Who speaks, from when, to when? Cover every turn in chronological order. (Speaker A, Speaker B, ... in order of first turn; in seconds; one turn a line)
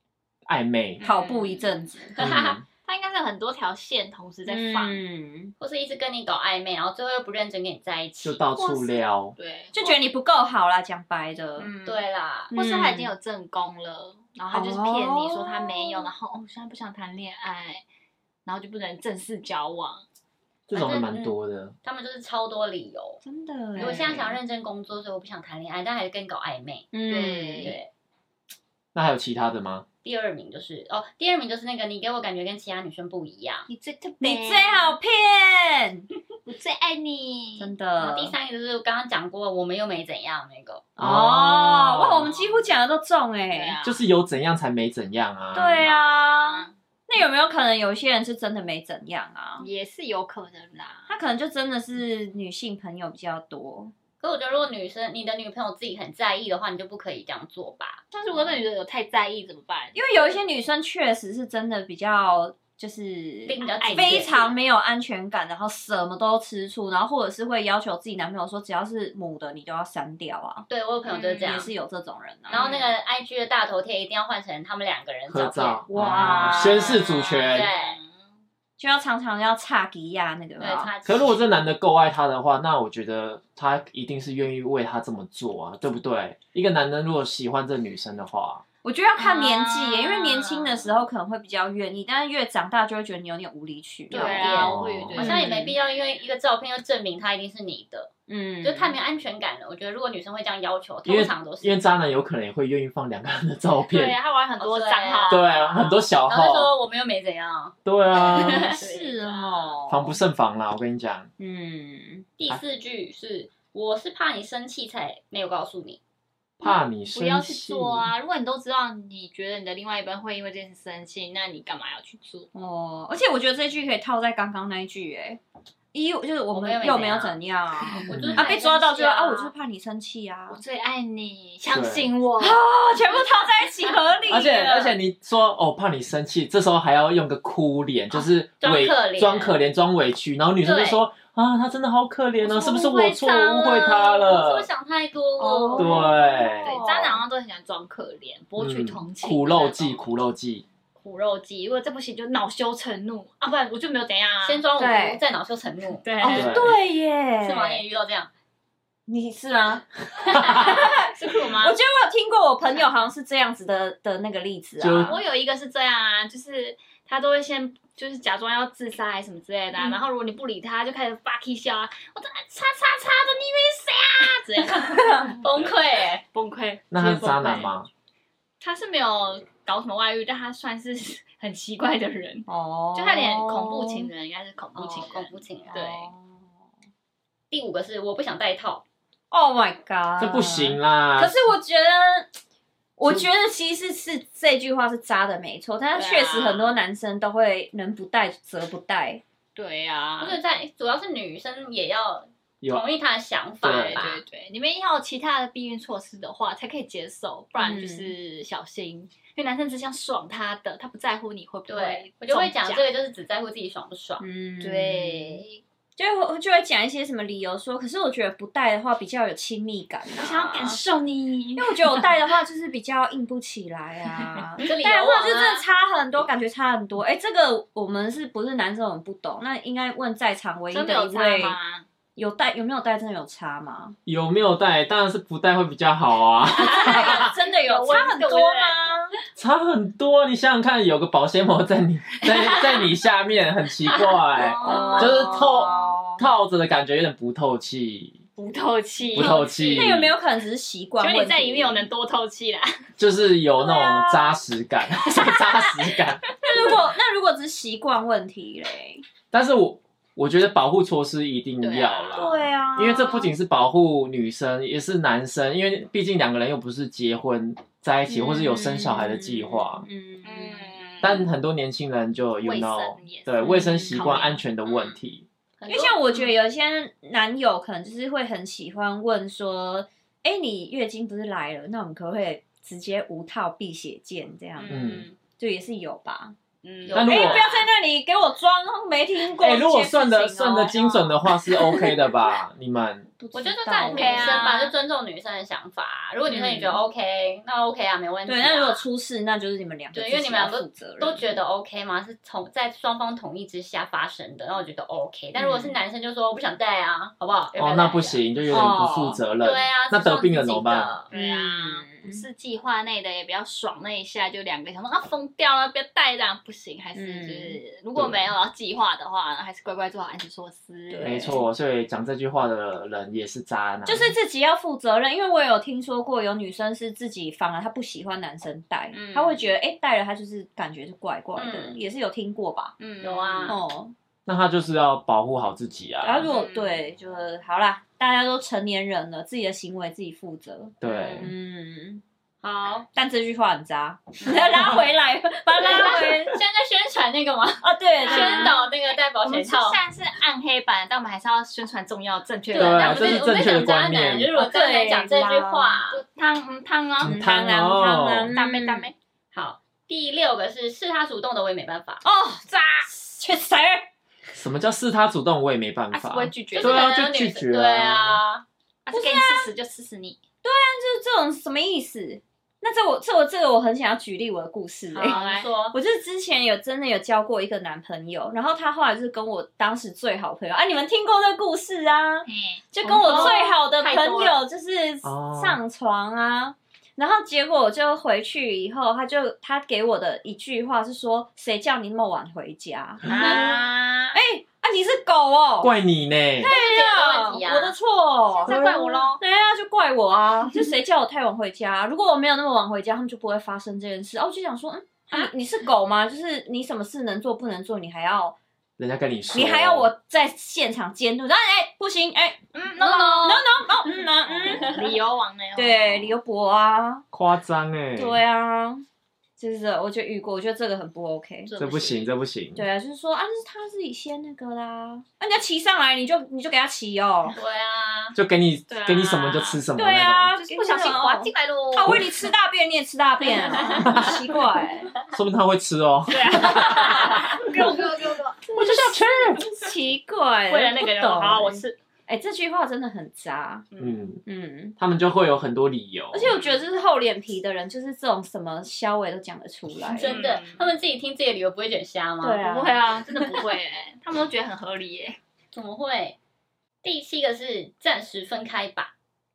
Speaker A: 0.5-1.0
Speaker B: 1.0-1.7
Speaker C: 1.0-2.3
Speaker A: 2.2-2.6
Speaker D: 2.2-2.5
Speaker B: 2.8-5.0
Speaker C: 4.5-5.5
Speaker D: 5.6-8.4
Speaker A: 8.2-9.4
Speaker B: 8.6-10.1
Speaker C: 9.8-11.7
Speaker B: 11.6-17.8
Speaker D: 11.8-12.5
Speaker C: 12.5-13.1
Speaker C: 14.5-16.1
Speaker B: 18.4-20.1
Speaker A: 20.7-21.8
Speaker D: 20.7-23.2
Speaker C: 23.2-24.3
Speaker D: 23.8-26.9
Speaker B: 23.8-24.1
Speaker C: 26.9-27.8
Speaker B: 27.1-27.8
Speaker D: 27.6-27.9
Speaker A: 28.9-29.9
Speaker D: 30.0-33.7
Speaker B: 33.7-34.9
Speaker C: 34.2-36.1
Speaker B: 36.5-37.7
Speaker C: 37.6-38.3
Speaker D: 38.0-40.9
Speaker C: 41.0-43.8
Speaker A: 41.0-41.9
Speaker B: 41.4-42.7
Speaker B: 43.5-44.0
Speaker A: 43.8-45.8
Speaker C: 45.5-49.7
Speaker B: 45.6-46.7
Speaker B: 49.6-51.1
Speaker C: 51.1-53.9
Speaker D: 54.2-58.0
Speaker B: 58.1-60.3
Speaker C: 60.0-70.7
Speaker D: 63.5-64.4
Speaker B: 63.6-64.5
Speaker D: 70.7-71.7
Speaker B: 71.1-71.7
Speaker C: 71.4-72.7
Speaker B: 72.5-72.9
Speaker D: 72.5-75.8
Speaker A: 75.3-77.7
Speaker C: 75.9-77.0
Speaker B: 75.9-78.1
Speaker D: 77.5-78.0
Speaker C: 78.8-80.9
Speaker D: 80.6-81.5
Speaker A: 81.0-88.6
Speaker C: 88.8-95.8
Speaker B: 89.2-91.0
Speaker B: 94.1-95.6
Speaker D: 94.1-98.1
Speaker A: 94.6-95.3
Speaker C: 98.3-99.0
Speaker D: 98.6-101.8
Speaker A: 101.1-104.2
Speaker B: 103.9-105.8
Speaker D: 104.6-108.9
Speaker A: 105.3-106.7
Speaker A: 107.8-108.7
Speaker C: 108.7-110.2
Speaker B: 108.7-109.6
Speaker A: 109.9-111.3
Speaker C: 111.4-112.3
Speaker D: 112.4-116.0
Speaker A: 116.6-118.1
Speaker B: 116.6-122.5
Speaker C: 122.5-125.4
Speaker C: 125.9-130.6
Speaker D: 126.5-127.4
Speaker A: 128.1-128.5
Speaker D: 128.1-128.8
Speaker B: 128.4-129.5
Speaker B: 130.5-132.6
Speaker A: 131.7-132.1
Speaker C: 132.4-135.0
Speaker A: 134.3-144.7
Speaker D: 138.6-139.6
Speaker D: 140.6-141.0
Speaker B: 142.4-144.2
Speaker D: 144.0-146.2
Speaker C: 145.4-147.2
Speaker A: 145.8-146.7
Speaker B: 146.6-150.0
Speaker A: 148.6-150.7
Speaker B: 151.0-154.6
Speaker D: 154.4-156.1
Speaker C: 154.8-155.2
Speaker B: 156.0-156.6
Speaker C: 156.2-157.8
Speaker A: 156.3-156.8
Speaker D: 157.4-158.3
Speaker C: 159.1-165.2
Speaker B: 160.5-161.8
Speaker A: 164.8-165.2
Speaker B: 165.1-175.4
Speaker C: 174.8-175.3
Speaker D: 175.4-176.2
Speaker B: 176.3-177.7
Speaker A: 176.9-177.9
Speaker B: 178.6-186.1
Speaker C: 182.5-184.1
Speaker D: 184.8-185.8
Speaker C: 185.7-186.4
Speaker D: 187.5-188.8
Speaker C: 189.3-192.4
Speaker A: 190.2-191.5
Speaker C: 193.0-199.2
Speaker B: 195.9-196.8
Speaker B: 199.6-200.4
Speaker D: 200.2-204.2
Speaker A: 202.6-202.9
Speaker A: 203.6-204.0
Speaker B: 203.8-212.8
Speaker C: 207.6-208.1
Speaker D: 211.7-214.2
Speaker C: 214.2-215.4
Speaker B: 214.6-215.6
Speaker C: 216.0-220.8
Speaker B: 220.2-222.1
Speaker C: 221.6-231.6
Speaker D: 224.6-225.7
Speaker B: 230.7-231.8
Speaker C: 232.2-234.0
Speaker A: 234.1-237.3
Speaker C: 236.6-239.2
Speaker B: 236.6-238.8
Speaker A: 239.4-248.2
Speaker B: 242.3-242.9
Speaker B: 244.3-246.0
Speaker C: 244.6-246.3
Speaker B: 248.4-250.0
Speaker A: 249.1-250.1
Speaker C: 249.2-251.9
Speaker B: 251.0-252.7
Speaker A: 253.0-256.4
Speaker C: 253.6-254.4
Speaker B: 255.3-256.8
Speaker C: 256.4-259.0
Speaker A: 259.3-269.9
Speaker B: 261.6-262.3
Speaker C: 262.1-263.3
Speaker C: 268.1-271.2
Speaker B: 270.2-271.3
Speaker A: 271.0-275.2
Speaker B: 272.4-275.0
Speaker C: 273.4-274.1
Speaker D: 275.6-275.9
Speaker B: 275.6-276.2
Speaker C: 275.7-284.9
Speaker B: 284.6-285.1
Speaker A: 284.7-285.1
Speaker C: 285.4-286.4
Speaker B: 286.6-287.0
Speaker D: 286.8-287.7
Speaker C: 286.9-292.3
Speaker A: 286.9-287.6
Speaker A: 289.4-293.1
Speaker C: 293.2-294.5
Speaker D: 293.3-298.8
Speaker B: 293.9-294.7
Speaker C: 296.3-296.8
Speaker C: 298.3-301.3
Speaker D: 299.9-308.7
Speaker C: 305.4-305.7
Speaker A: 307.6-310.9
Speaker C: 308.5-309.2
Speaker D: 309.4-311.1
Speaker B: 311.1-321.4
Speaker C: 311.1-312.2
Speaker C: 316.9-317.6
Speaker A: 318.0-318.3
Speaker C: 320.9-321.4
Speaker A: 321.0-324.1
Speaker C: 323.9-332.7
Speaker B: 328.9-329.5
Speaker D: 331.4-331.8
Speaker B: 332.8-333.6
Speaker D: 333.0-333.6
Speaker C: 333.5-333.9
Speaker A: 334.3-336.3
Speaker C: 336.0-342.0
Speaker B: 336.2-336.8
Speaker A: 340.8-341.3
Speaker D: 340.9-341.1
Speaker D: 342.4-342.9
Speaker C: 342.9-346.4
Speaker D: 345.6-349.8
Speaker C: 347.6-348.6
Speaker B: 348.0-353.2
Speaker D: 352.5-356.0
Speaker A: 352.6-354.3
Speaker C: 354.3-355.8
Speaker B: 355.9-357.2
Speaker A: 357.0-358.3
Speaker C: 357.0-358.9
Speaker B: 358.3-358.9
Speaker D: 359.3-362.0
Speaker C: 362.0-363.9
Speaker B: 362.5-362.9
Speaker A: 364.4-368.2
Speaker B: 365.9-366.9
Speaker D: 366.5-368.4
Speaker B: 368.9-370.2
Speaker C: 368.9-369.5
Speaker C: 370.4-375.2
Speaker B: 374.9-375.5
Speaker D: 375.0-375.8
Speaker C: 375.7-393.6
Speaker B: 382.3-384.3
Speaker D: 383.0-384.4
Speaker A: 385.0-385.6
Speaker A: 393.1-393.4
Speaker B: 393.1-394.2
Speaker C: 394.1-395.7
Speaker A: 395.6-396.5
Speaker C: 396.4-408.4
Speaker D: 396.4-397.8
Speaker B: 398.4-399.2
Speaker A: 408.8-409.9
Speaker C: 409.3-415.0
Speaker B: 412.5-416.1
Speaker C: 415.6-417.0
Speaker A: 417.1-418.2
Speaker C: 418.0-418.8
Speaker C: 419.4-421.5
Speaker B: 421.5-422.1
Speaker A: 421.6-422.7
Speaker C: 422.6-427.4
Speaker D: 427.4-428.2
Speaker A: 428.1-430.3
Speaker B: 428.7-429.6
Speaker C: 429.8-434.9
Speaker B: 430.4-432.1
Speaker A: 431.8-432.1
Speaker B: 433.2-434.1
Speaker A: 433.8-434.2
Speaker A: 435.1-437.4
Speaker B: 436.1-439.0
Speaker C: 436.4-443.7
Speaker A: 438.6-439.5
Speaker B: 440.5-441.8
Speaker A: 443.8-444.2
Speaker C: 444.3-444.8
Speaker A: 444.8-446.3
Speaker C: 446.1-450.2
Speaker B: 446.2-446.6
Speaker D: 449.9-452.4
Speaker B: 450.0-450.6
Speaker C: 452.2-452.9
Speaker B: 452.4-455.2
Speaker D: 455.5-456.2
Speaker D: 456.8-458.9